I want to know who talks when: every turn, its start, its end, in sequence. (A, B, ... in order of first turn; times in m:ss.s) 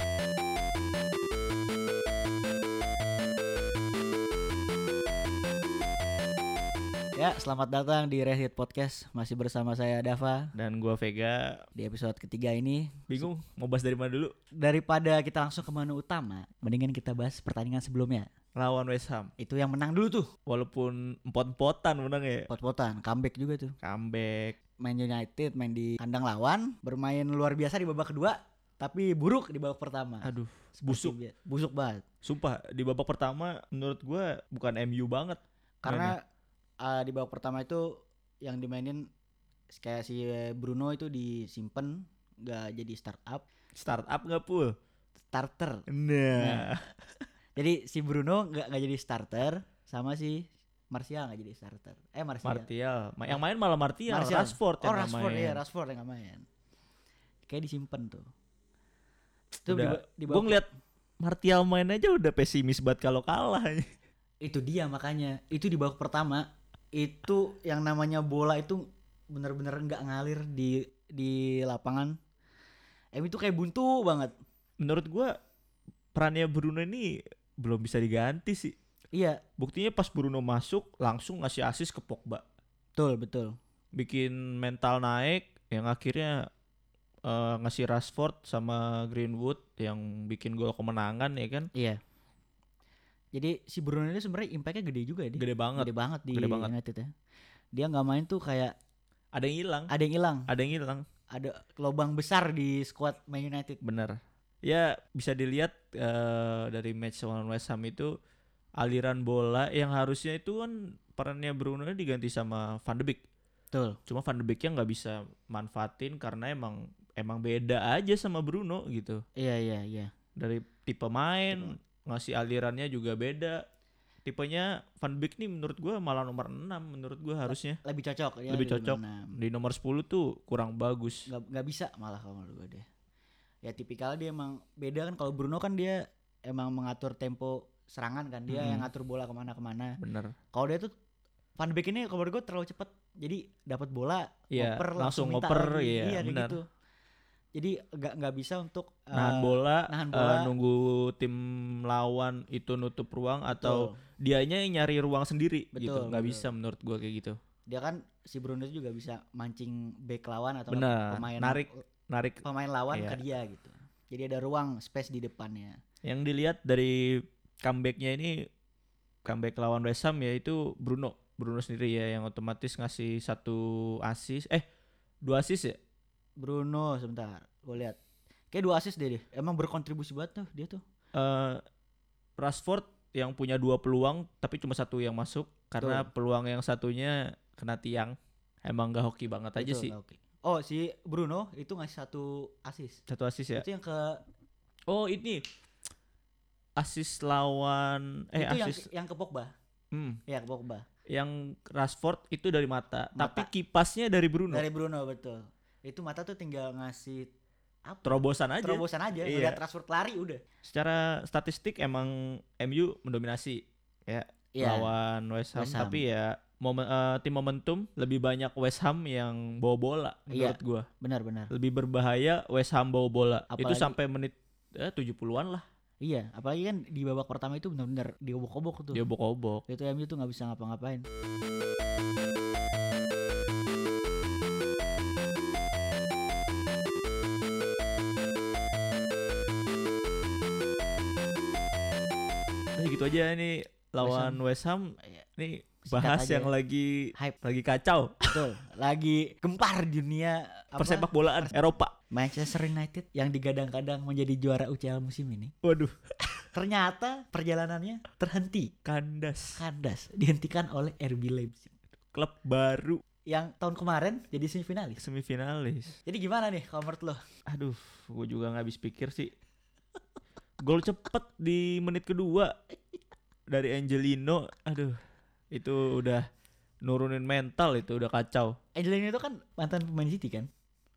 0:07.2-0:10.5 A
0:10.6-0:11.7 B
0:11.8-0:13.3 A
0:13.1-0:14.3 B
0:14.6-0:18.3 A
0:18.6-0:19.3 B
0:19.4-0:20.3 A
0:20.5-0:22.5 B
0:22.5-0:23.8 A
0:23.8-0:24.6 B
0:24.8-0:30.3 A
0:30.2-0:31.2 B
0:30.8-0:32.0 A
0:32.2-0:36.1 B
0:35.8-0:36.2 A
0:36.8-0:37.9 A
0:38.4-0:39.1 A
0:39.7-0:43.4 A
0:43.8-0:44.7 B
0:45.3-0:45.8 A
0:45.9-0:47.3 B
0:46.4-0:46.7 A
0:47.6-0:52.7 A
0:52.4-0:55.6 B
0:54.1-0:56.5 A
0:57.5-0:58.3 A
0:59.6-1:00.6 A
0:59.7-1:00.7 B
1:01.2-1:03.9 B
1:04.4-1:08.8 A
1:09.3-1:12.2 A
1:13.2-1:14.3 A
1:14.8-1:15.3 B
1:16.2-1:17.1 B
1:17.6-1:18.8 B
1:19.1-1:19.4 A
1:19.6-1:22.4 B
1:23.0-1:23.6 A
1:24.0-1:26.4 B
1:27.3-1:31.7 B
1:31.7-1:32.0 A
1:33.3-1:37.1 A
1:35.4-1:36.7 B
1:37.7-1:38.7 A
1:39.3-1:39.9 B
1:39.9-1:40.5 A
1:40.5-1:41.0 B
1:41.3-1:43.8 A
1:43.8-1:48.1 B
1:48.8-1:53.2 B
1:54.1-1:59.2 B
1:59.4-2:00.1 A
2:00.4-2:03.6 B
2:04.2-2:07.8 B
2:07.8-2:09.3 A
2:08.5-2:11.3 B
2:11.3-2:12.8 A
2:13.6-2:20.0 A
2:18.5-2:18.9 B
2:20.0-2:20.3 B
2:20.5-2:20.9 A
2:21.6-2:26.6 A
2:24.5-2:26.6 B
2:27.6-2:30.5 A
2:29.1-2:37.4 B
2:33.5-2:34.0 A
2:35.7-2:36.5 A
2:37.7-2:41.8 A
2:40.7-2:42.4 B
2:42.4-2:45.8 A
2:42.9-2:43.2 B
2:46.0-2:48.4 B
2:49.3-2:54.6 B
2:55.2-2:55.8 B
2:56.4-2:58.0 A
2:58.5-3:00.8 A
3:01.1-3:01.6 B
3:02.4-3:09.9 B
3:05.8-3:06.1 A
3:09.6-3:13.0 A
3:13.1-3:13.6 B
3:13.6-3:14.2 A
3:14.9-3:15.4 B
3:16.8-3:18.8 B
3:18.4-3:19.5 A
3:19.9-3:20.2 B
3:20.3-3:20.9 A
3:21.1-3:24.6 B
3:23.2-3:23.5 A
3:24.5-3:27.3 A
3:27.9-3:30.4 A
3:28.0-3:29.6 B
3:30.6-3:40.9 B
3:34.6-3:34.9 A
3:35.6-3:36.0 A
3:40.3-3:41.5 A
3:41.5-3:45.6 B
3:43.5-3:44.0 A
3:46.0-3:49.0 A
3:48.9-3:49.6 B
3:49.7-3:51.0 A
4:02.8-4:08.4 B
4:04.0-4:04.4 A
4:05.9-4:06.5 A
4:08.3-4:11.6 A
4:10.8-4:11.9 B
4:12.1-4:15.5 A
4:15.6-4:16.4 B
4:16.5-4:18.7 A
4:18.8-4:19.6 B
4:19.6-4:21.8 A
4:22.1-4:23.0 B
4:23.3-4:25.0 A
4:25.0-4:26.0 B
4:26.1-4:27.2 A
4:27.5-4:29.3 B
4:30.6-4:32.5 B
4:33.5-4:35.0 B
4:35.5-4:36.2 B
4:36.8-4:38.6 B
4:38.8-4:40.5 A